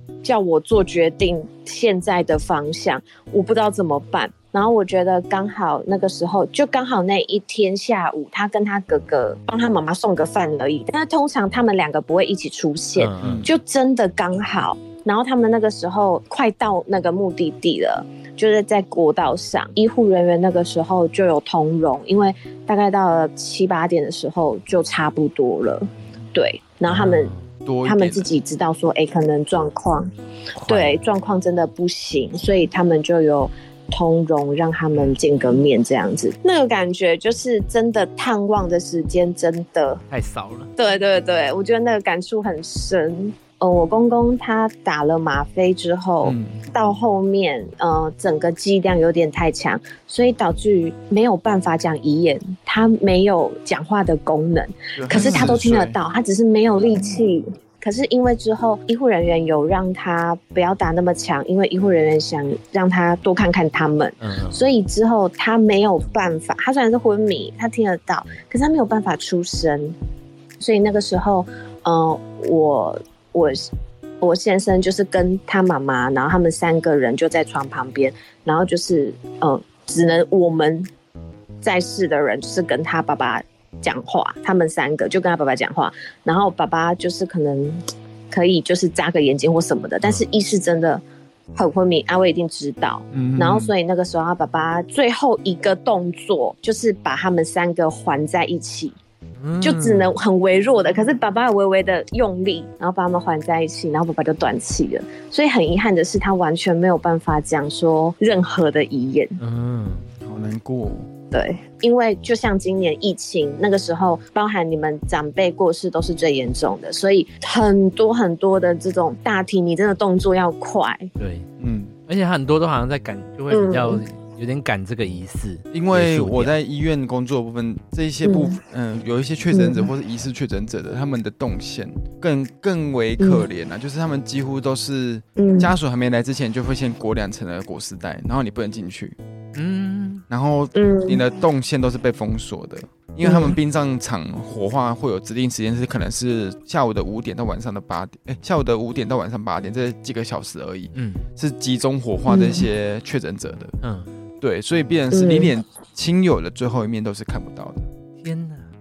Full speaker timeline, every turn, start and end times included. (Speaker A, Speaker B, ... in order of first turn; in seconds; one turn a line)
Speaker A: 0.2-27.3
Speaker B: 13.0-13.4
Speaker C: 13.2-13.5
Speaker B: 26.9-27.4
Speaker C: 27.6-28.3
Speaker A: 27.8-30.1
Speaker B: 30.6-31.0
Speaker A: 30.6-40.0
Speaker B: 40.1-40.7
Speaker A: 40.8-69.9
Speaker C: 46.2-46.6
Speaker C: 55.0-56.0
Speaker B: 55.2-55.5
Speaker B: 64.2-64.6
Speaker A: 70.6-80.9
Speaker A: 81.6-91.0
Speaker A: 91.5-99.0
Speaker C: 93.1-93.7
Speaker B: 99.4-100.1
Speaker A: 99.6-109.4
Speaker B: 109.4-110.1
Speaker C: 110.2-111.1
Speaker A: 111.3-121.1
Speaker B: 121.2-121.5
Speaker C: 121.6-121.9
Speaker B: 122.1-126.5
Speaker A: 123.5-124.0
Speaker C: 125.7-139.2
Speaker A: 128.2-128.6
Speaker A: 129.5-129.9
Speaker A: 133.2-133.5
Speaker A: 135.4-135.7
Speaker B: 139.5-140.2
Speaker C: 140.3-153.7
Speaker A: 140.7-141.2
Speaker A: 143.2-143.6
Speaker B: 150.9-151.2
Speaker A: 152.3-152.6
Speaker B: 153.8-154.1
Speaker C: 154.4-157.8
Speaker A: 155.1-155.5
Speaker B: 158.2-158.6